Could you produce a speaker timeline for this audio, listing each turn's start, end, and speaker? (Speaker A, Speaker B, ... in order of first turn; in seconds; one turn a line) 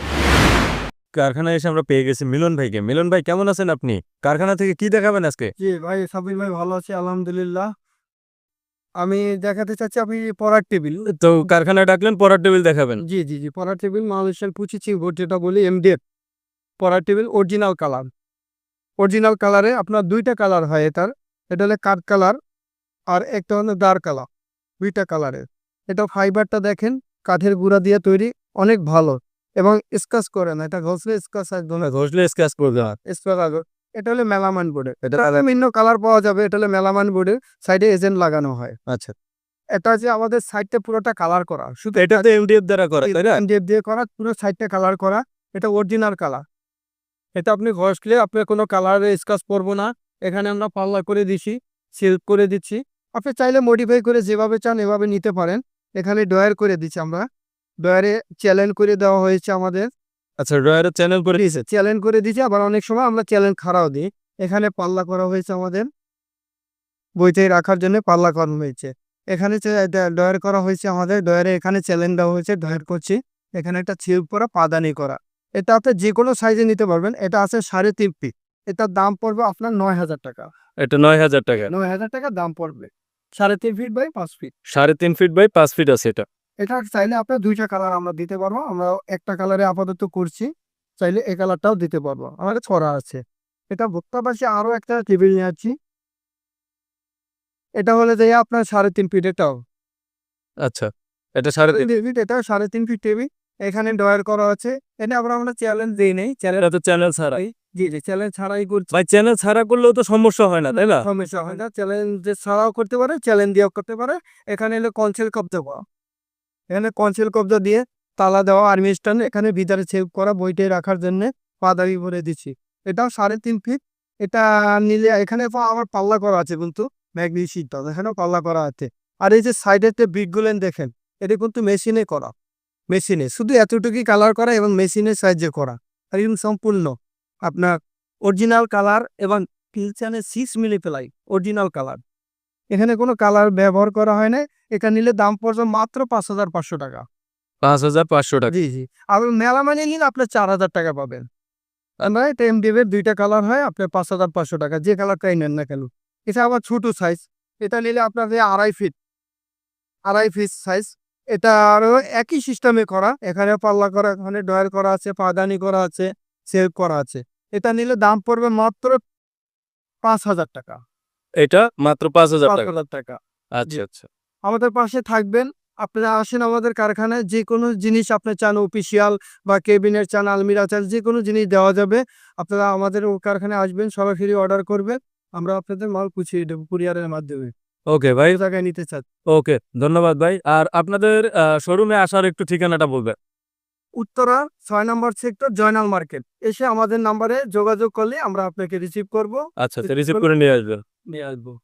Speaker A: 1.1-5.5
Speaker B: 5.6-7.7
Speaker B: 9.0-11.1
Speaker A: 11.1-13.0
Speaker B: 13.0-16.0
Speaker B: 16.8-18.1
Speaker B: 19.0-22.4
Speaker B: 23.1-24.3
Speaker B: 24.8-31.9
Speaker A: 31.9-33.0
Speaker B: 33.0-38.8
Speaker A: 38.9-39.1
Speaker B: 39.7-42.1
Speaker A: 42.0-43.4
Speaker B: 43.0-46.4
Speaker B: 47.4-57.2
Speaker B: 57.8-59.9
Speaker A: 60.4-61.4
Speaker B: 61.4-65.9
Speaker B: 67.2-80.5
Speaker A: 80.8-81.7
Speaker B: 81.7-84.5
Speaker A: 84.7-86.2
Speaker B: 86.6-95.7
Speaker B: 97.8-99.6
Speaker A: 100.6-101.9
Speaker B: 101.7-106.7
Speaker A: 106.6-107.4
Speaker B: 107.3-108.9
Speaker A: 108.9-111.1
Speaker B: 111.0-115.8
Speaker B: 116.7-132.3
Speaker B: 132.9-142.0
Speaker B: 142.7-147.1
Speaker A: 147.6-148.5
Speaker B: 148.5-151.3
Speaker B: 152.0-158.9
Speaker B: 160.1-169.0
Speaker B: 170.0-170.8
Speaker A: 171.4-172.7
Speaker B: 172.5-173.8
Speaker A: 173.5-174.1
Speaker B: 174.5-187.5
Speaker A: 187.9-188.4
Speaker B: 188.3-189.1
Speaker A: 189.3-193.2
Speaker B: 194.0-200.3
Speaker A: 199.6-200.8
Speaker B: 201.1-201.6